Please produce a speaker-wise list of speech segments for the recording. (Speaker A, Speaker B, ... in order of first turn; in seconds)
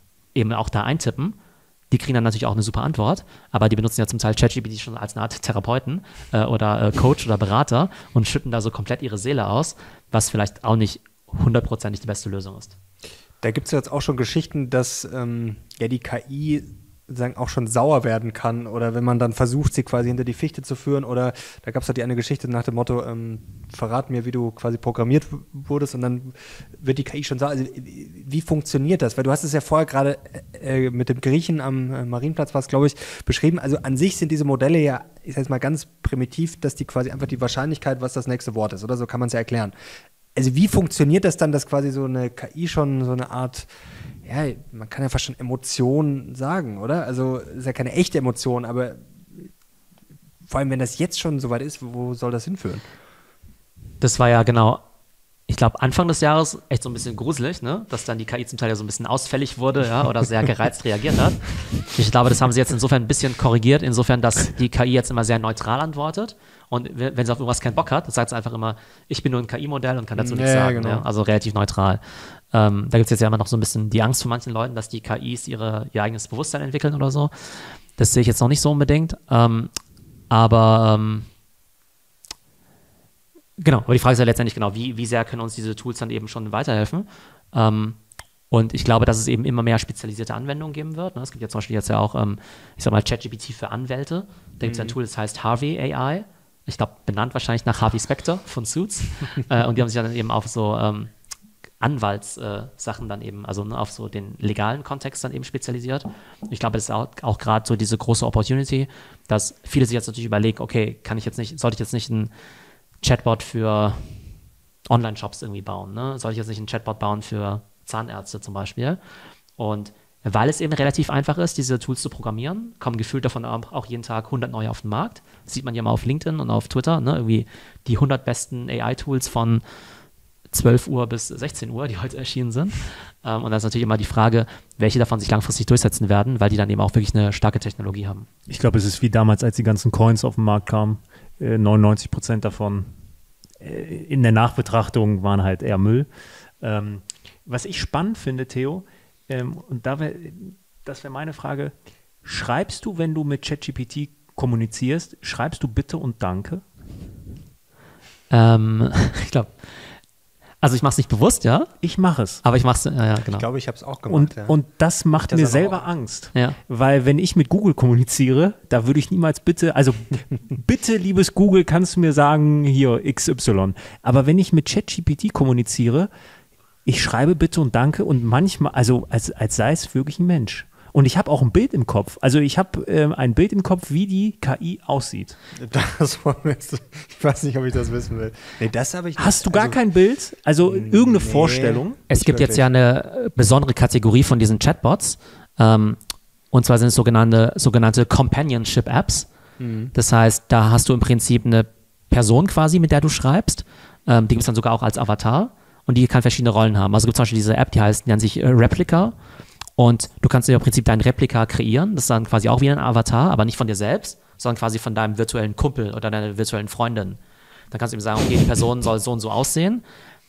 Speaker A: 0.3-1.4, 1.9-12.8, 54.0-54.8, 55.5-79.7, 80.3-81.3, 83.6-88.0, 88.5-101.1, 101.8-112.3, 113.0-114.1, 114.9-119.0, 119.6-129.6, 130.5-138.3, 158.3-159.7, 160.6-161.7, 162.4-163.4, 192.1-196.0, 196.5-199.3, 199.9-209.2, 209.8-217.2, 217.7-219.8
Speaker B: 13.4-39.7, 40.4-43.7, 44.2-49.5, 50.5-52.8, 70.2-71.0, 94.6-95.0, 163.3-164.6, 165.2-165.9, 185.6-189.8, 190.7-192.7, 199.6-199.9
Speaker C: 138.5-142.9, 143.6-146.1, 146.6-156.6, 161.8-162.4, 164.1-176.1, 176.8-185.4, 189.2-192.0